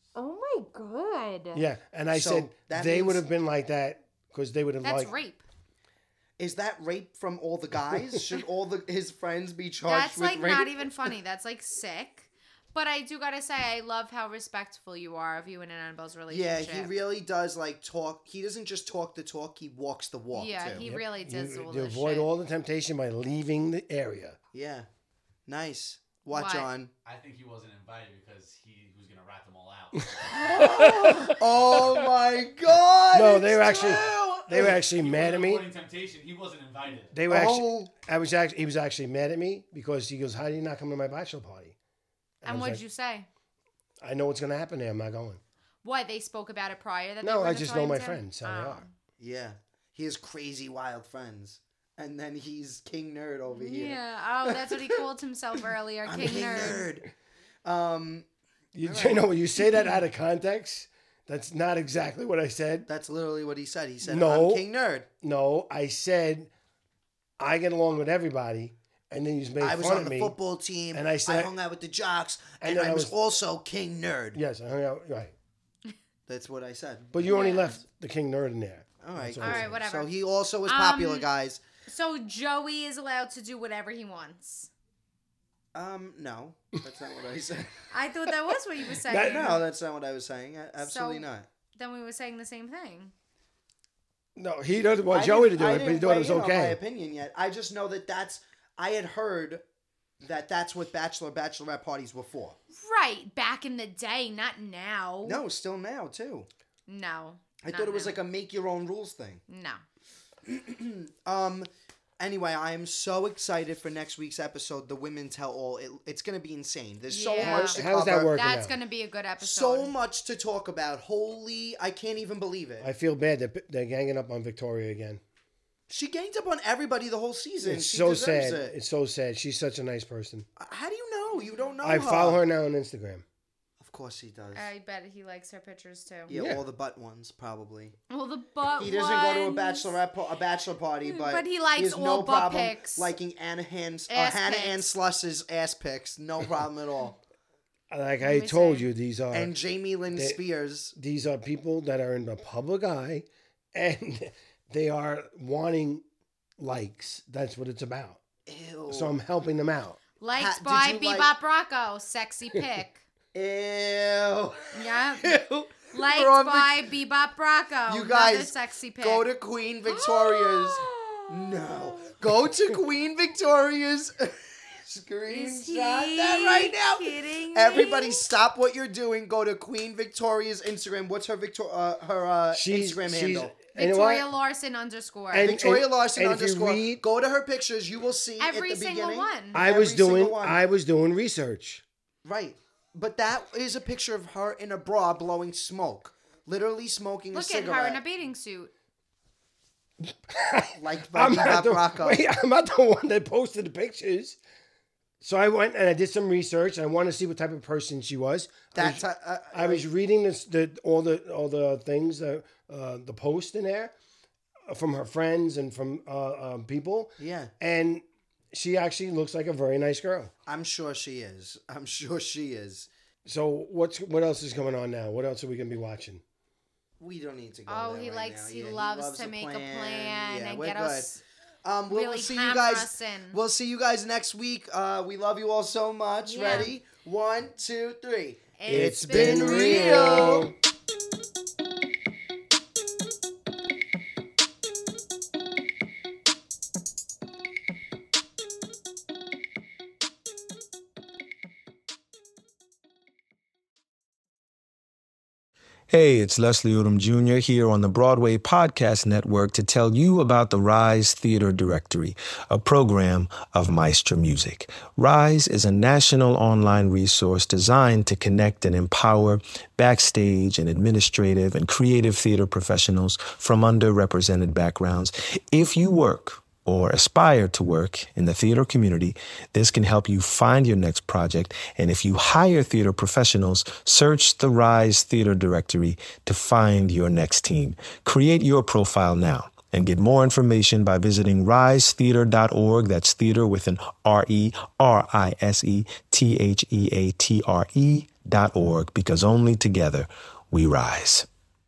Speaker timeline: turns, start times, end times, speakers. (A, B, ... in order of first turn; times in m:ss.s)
0:00.2-0:01.6 A
0:01.5-0:05.2 B
0:02.1-0:03.2 C
0:04.8-0:05.4 A
0:06.4-0:11.1 C
0:07.9-0:08.2 B
0:09.9-0:16.9 A
0:16.3-0:20.8 C
0:20.3-0:22.3 A
0:20.8-0:24.4 B
0:24.5-0:24.9 C
0:25.5-0:26.9 C
0:26.3-0:26.7 A
0:27.0-0:30.5 D
0:30.2-0:32.0 B
0:30.3-0:34.8 C
0:33.1-0:35.7 B
0:34.8-0:37.1 D
0:37.1-0:41.8 B
0:37.3-0:37.9 C
0:42.4-0:43.3 A
0:42.4-0:42.8 B
0:44.0-0:45.4 B
0:45.8-0:48.9 A
0:47.2-0:48.9 B
0:49.2-0:55.0 C
0:53.5-0:56.8 A
0:56.0-0:57.1 C
0:57.6-0:58.3 C
0:58.8-1:02.9 B
0:58.8-0:59.3 C
1:02.9-1:05.1 C
1:04.0-1:04.6 B
1:05.2-1:06.5 B
1:07.4-1:10.4 B
1:09.6-1:14.4 C
1:10.9-1:11.5 B
1:12.6-1:13.1 B
1:14.3-1:15.4 B
1:16.3-1:17.1 C
1:17.1-1:19.7 B
1:17.2-1:17.8 A
1:19.0-1:21.6 C
1:19.4-1:20.1 A
1:20.7-1:21.3 A
1:21.9-1:24.7 A
1:25.7-1:27.8 C
1:27.9-1:29.6 A
1:29.0-1:29.6 B
1:29.2-1:31.5 C
1:30.8-1:33.1 A
1:34.4-1:36.8 B
1:35.1-1:39.6 C
1:40.2-1:42.6 C
1:42.8-1:45.4 A
1:45.2-1:46.5 C
1:46.9-1:48.2 A
1:47.6-1:49.4 C
1:49.5-1:49.8 A
1:50.5-1:58.4 C
1:57.1-1:59.9 A
1:57.4-1:58.7 B
1:59.4-2:02.9 C
2:02.8-2:05.2 B
2:05.9-2:08.7 C
2:07.6-2:10.5 B
2:10.6-2:12.4 C
2:11.3-2:11.7 A
2:11.8-2:13.2 B
2:13.8-2:14.7 C
2:14.5-2:16.3 A
2:16.3-2:18.0 C
2:16.3-2:16.6 B
2:18.1-2:20.0 A
2:18.8-2:27.2 C
2:21.1-2:23.2 A
2:24.1-2:24.9 A
2:27.9-2:29.5 B
2:28.2-2:28.9 A
2:29.3-2:30.9 C
2:30.1-2:30.4 B
2:31.0-2:36.0 B
2:36.6-2:38.2 B
2:38.5-2:39.2 C
2:38.9-2:40.0 B
2:40.2-2:43.0 A
2:40.3-2:41.3 C
2:43.3-2:46.9 C
2:44.7-2:45.4 A
2:45.9-2:49.3 A
2:47.9-3:03.5 C
2:49.9-2:52.2 A
2:55.3-2:58.2 A
3:02.5-3:04.3 B
3:03.8-3:05.5 A
3:05.3-3:07.0 B
3:05.4-3:10.6 C
3:08.4-3:09.6 A
3:09.5-3:11.8 B
3:12.2-3:18.0 C
3:17.3-3:18.7 A
3:20.0-3:24.4 B
3:20.8-3:22.2 C
3:25.2-3:33.9 B
3:28.7-3:29.8 C
3:34.7-3:40.3 B
3:37.2-3:37.5 C
3:40.5-3:42.9 C
3:43.2-3:46.2 B
3:47.0-3:51.1 C
3:47.7-3:51.2 A
3:51.6-4:00.5 C
3:51.9-3:53.4 A
3:56.3-3:56.7 A
3:58.6-4:00.4 A
3:58.7-4:00.6 B
4:15.9-5:01.3 E